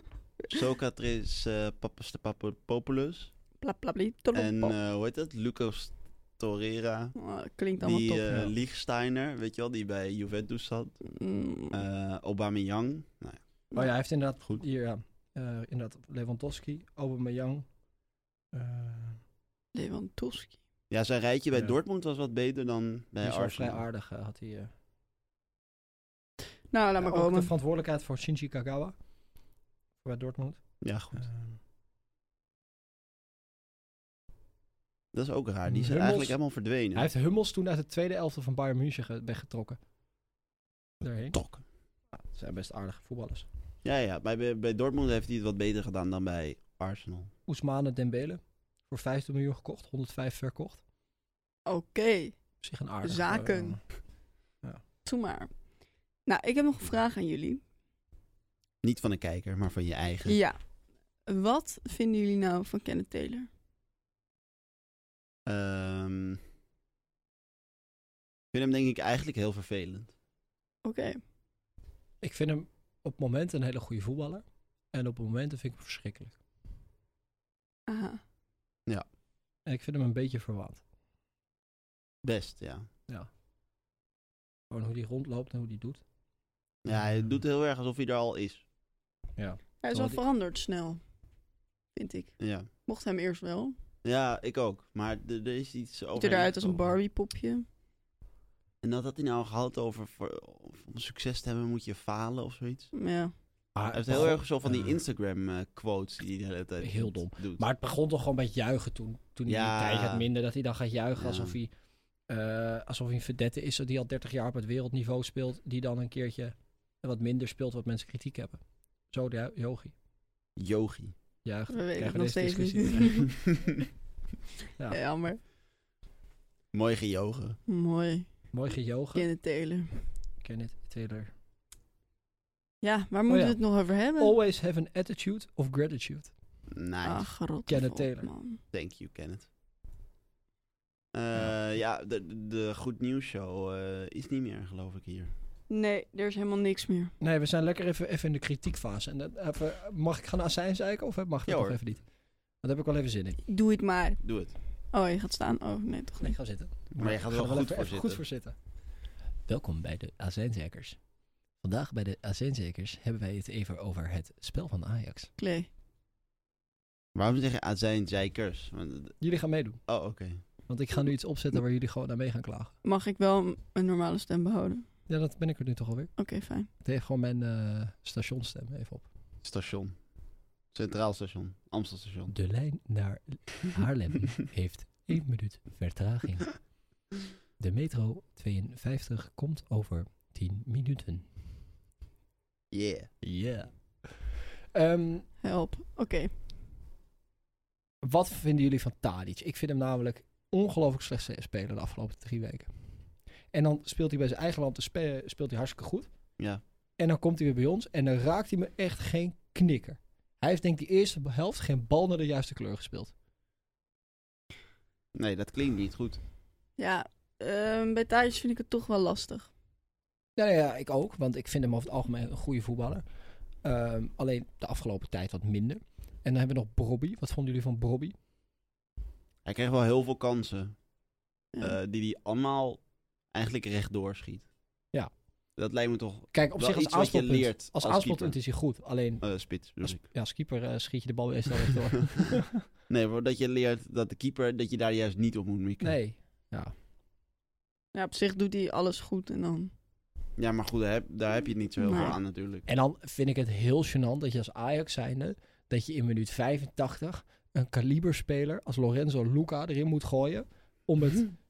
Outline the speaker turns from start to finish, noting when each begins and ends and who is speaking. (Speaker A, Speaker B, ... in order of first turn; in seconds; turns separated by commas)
Speaker A: 0.5-3.3, Speaker B: 3.6-4.8, Speaker A: 4.3-7.2, Speaker B: 7.2-8.4, Speaker A: 7.8-11.0, Speaker B: 11.1-11.8, Speaker A: 11.7-13.4, Speaker C: 13.7-17.7, Speaker C: 18.5-19.2, Speaker B: 19.7-20.6, Speaker A: 20.9-23.8, Speaker C: 23.2-24.7, Speaker B: 26.7-27.5, Speaker C: 27.0-28.9, Speaker C: 30.0-31.6, Speaker A: 30.8-31.2, Speaker A: 35.1-37.1, Speaker C: 35.7-36.4, Speaker C: 37.0-39.8, Speaker C: 41.0-41.4, Speaker A: 41.3-41.6, Speaker C: 42.2-43.5, Speaker A: 43.8-47.3, Speaker C: 47.5-50.8, Speaker B: 51.7-52.4, Speaker C: 52.6-53.8, Speaker B: 53.0-53.8, Speaker B: 55.0-55.5, Speaker B: 56.3-57.6, Speaker A: 58.8-60.4, Speaker B: 60.3-60.6, Speaker B: 61.3-63.5, Speaker A: 65.5-66.4, Speaker A: 68.5-70.1, Speaker B: 70.8-71.2, Speaker C: 72.2-76.4, Speaker B: 77.9-78.2, Speaker C: 79.7-80.8, Speaker A: 82.2-82.9, Speaker C: 84.7-86.0, Speaker A: 86.8-88.6, Speaker C: 86.9-87.3, Speaker C: 89.4-90.2, Speaker B: 89.8-91.0, Speaker B: 92.0-93.8, Speaker A: 92.4-92.7, Speaker A: 94.0-96.9, Speaker B: 96.2-97.7, Speaker A: 98.8-102.9, Speaker B: 102.9-103.3, Speaker C: 103.8-105.0, Speaker A: 103.9-107.6, Speaker C: 106.8-111.7, Speaker A: 109.5-110.3, Speaker A: 111.2-111.6, Speaker C: 112.3-118.6, Speaker C: 119.1-119.9, Speaker A: 120.6-121.2, Speaker C: 121.5-123.2, Speaker B: 121.7-123.4, Speaker A: 123.3-123.8, Speaker B: 124.9-125.4, Speaker A: 126.7-127.6, Speaker B: 127.7-128.3, Speaker C: 128.5-129.3, Speaker B: 129.1-130.0, Speaker C: 130.4-131.3, Speaker B: 132.8-134.3, Speaker C: 133.3-133.6, Speaker C: 134.2-136.3, Speaker A: 136.7-137.3, Speaker B: 137.0-138.6, Speaker C: 137.7-138.3, Speaker A: 138.7-139.5, Speaker A: 141.1-145.3, Speaker B: 145.7-147.1, Speaker C: 147.2-152.0, Speaker A: 151.5-151.8, Speaker C: 152.6-153.4, Speaker B: 153.5-154.2, Speaker A: 154.2-154.5, Speaker B: 154.9-156.3, Speaker C: 156.2-158.6, Speaker A: 156.9-158.2, Speaker C: 159.5-161.0, Speaker C: 161.6-165.3, Speaker B: 165.4-165.7, Speaker A: 167.2-169.2, Speaker C: 169.2-169.8, Speaker A: 169.9-170.4, Speaker C: 170.7-172.7, Speaker B: 172.8-174.8, Speaker C: 175.1-176.1, Speaker B: 176.2-176.7, Speaker C: 176.8-179.1, Speaker A: 179.4-180.0, Speaker A: 180.7-182.3, Speaker C: 182.3-186.6, Speaker C: 187.6-191.3, Speaker A: 192.7-193.2, Speaker C: 193.2-195.3, Speaker B: 195.4-196.3, Speaker C: 198.0-202.7, Speaker C: 203.5-206.1, Speaker C: 207.0-213.1, Speaker A: 215.2-216.2, Speaker B: 216.8-219.5, Speaker C: 220.4-223.0, Speaker C: 223.6-228.1, Speaker A: 229.4-230.8, Speaker A: 231.6-234.5, Speaker A: 235.6-238.3, Speaker C: 236.3-239.3, Speaker A: 239.2-240.1, Speaker C: 239.8-242.7, Speaker A: 242.9-245.9, Speaker C: 245.8-246.7, Speaker B: 247.9-249.7, Speaker A: 250.4-252.7, Speaker B: 251.8-252.2, Speaker C: 252.7-261.4